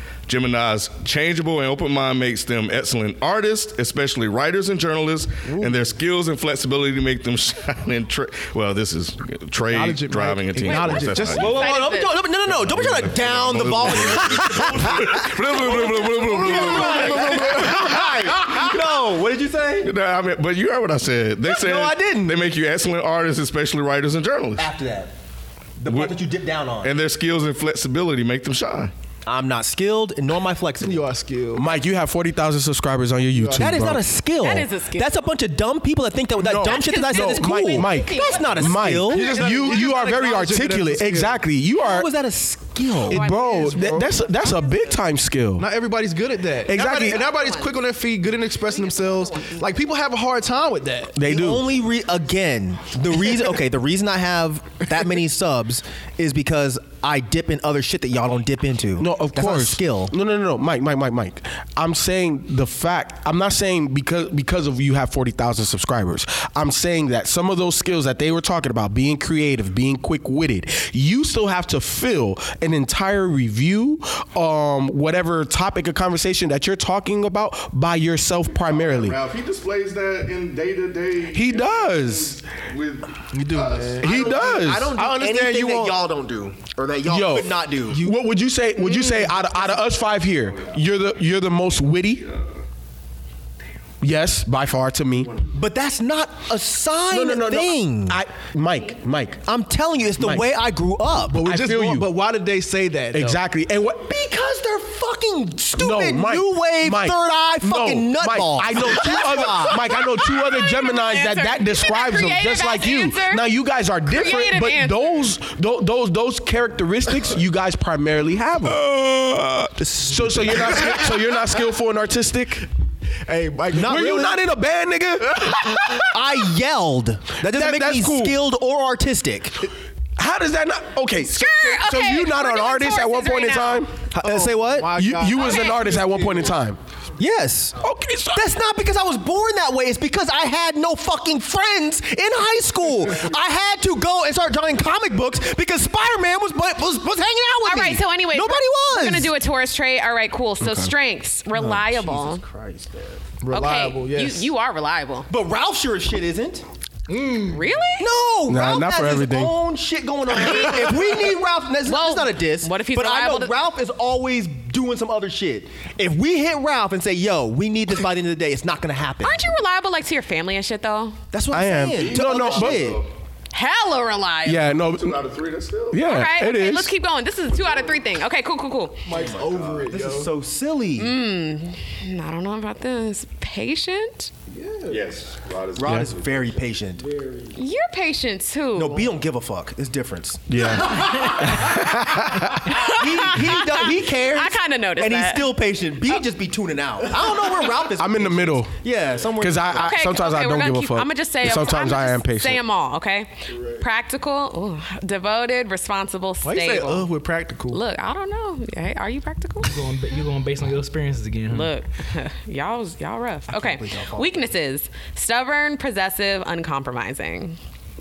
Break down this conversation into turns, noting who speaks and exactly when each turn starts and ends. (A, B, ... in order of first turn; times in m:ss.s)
0:00.3-0:11.7 A
0:05.4-0:05.8 B
0:09.7-0:11.6 B
0:10.6-0:12.2 C
0:11.3-0:19.9 D
0:12.4-0:18.7 A
0:15.9-0:17.7 B
0:19.8-0:24.7 A
0:21.4-0:22.4 D
0:24.6-0:25.1 D
0:25.8-0:26.9 D
0:25.8-0:26.2 A
0:26.8-0:28.9 A
0:29.2-0:31.0 D
0:30.8-0:31.7 B
0:31.5-0:34.0 E
0:33.3-0:33.7 B
0:33.5-0:39.5 D
0:34.4-0:35.1 C
0:36.4-0:42.1 E
0:36.6-0:39.9 C
0:39.1-0:41.4 B
0:41.8-0:43.2 D
0:43.1-0:45.7 E
0:43.1-0:45.0 C
0:43.5-0:44.1 B
0:45.6-0:51.1 B
0:46.7-0:47.3 E
0:47.1-0:47.8 C
0:48.6-0:49.6 C
0:51.1-0:51.7 E
0:51.2-1:00.1 D
0:59.0-1:19.2 E
1:18.7-1:24.2 A
1:21.3-1:22.4 E
1:23.3-1:26.0 B
1:24.0-1:25.0 E
1:24.0-1:28.2 D
1:27.1-1:32.2 E
1:32.2-1:32.5 A
1:34.0-1:35.4 E
1:35.4-1:38.2 D
1:37.1-1:39.4 E
1:39.4-1:41.4 D
1:40.2-1:40.5 E
1:41.3-1:43.4 B
1:41.4-1:42.1 E
1:43.1-1:44.0 E
1:44.0-1:49.9 D
1:45.8-1:58.8 E
1:49.8-1:53.5 C
1:54.1-1:55.2 C
1:58.6-1:59.7 A
1:59.8-2:01.0 D
2:00.0-2:02.7 E
2:03.2-2:04.0 B
2:03.7-2:04.4 D
2:03.8-2:05.9 E
2:05.9-2:09.6 D
2:07.4-2:08.4 E
2:10.2-2:14.1 E
2:11.2-2:13.9 C
2:14.1-2:14.9 D
2:14.2-2:16.5 B
2:14.8-2:16.8 E
2:15.3-2:15.8 C
2:17.2-2:17.8 D
2:17.8-2:18.5 E
2:18.3-2:29.3 D
2:27.6-2:32.4 C
2:30.6-2:30.9 E
2:31.5-2:33.3 D
2:33.4-2:34.5 B
2:33.5-2:35.3 C
2:35.3-2:36.6 D
2:37.1-2:37.7 B
2:37.4-2:38.1 C
2:38.0-2:49.5 D
2:38.5-2:39.5 E
2:40.3-2:41.0 C
2:41.8-2:43.5 C
2:49.2-2:51.2 C
2:51.3-2:53.0 D
2:51.5-2:52.9 E
2:51.9-2:53.1 A
2:53.5-2:54.7 C
2:54.4-2:55.2 E
2:54.8-2:56.0 A
2:55.9-2:56.9 E
2:56.0-2:59.1 C
2:59.0-3:00.3 B
2:59.1-3:01.2 D
3:01.0-3:04.3 C
3:04.5-3:05.0 B
3:04.9-3:06.6 A
3:05.8-3:07.1 D
3:07.0-3:07.5 B
3:07.5-3:09.1 C
3:08.7-3:11.9 D
3:10.5-3:12.6 E
3:12.6-3:15.5 C
3:12.7-3:19.9 D
3:17.9-3:18.8 E
3:19.4-3:22.6 E
3:19.7-3:27.1 C
3:26.4-3:27.8 B
3:27.7-3:29.7 C
3:29.6-3:31.7 F
3:31.5-3:37.6 C
3:33.5-3:34.5 D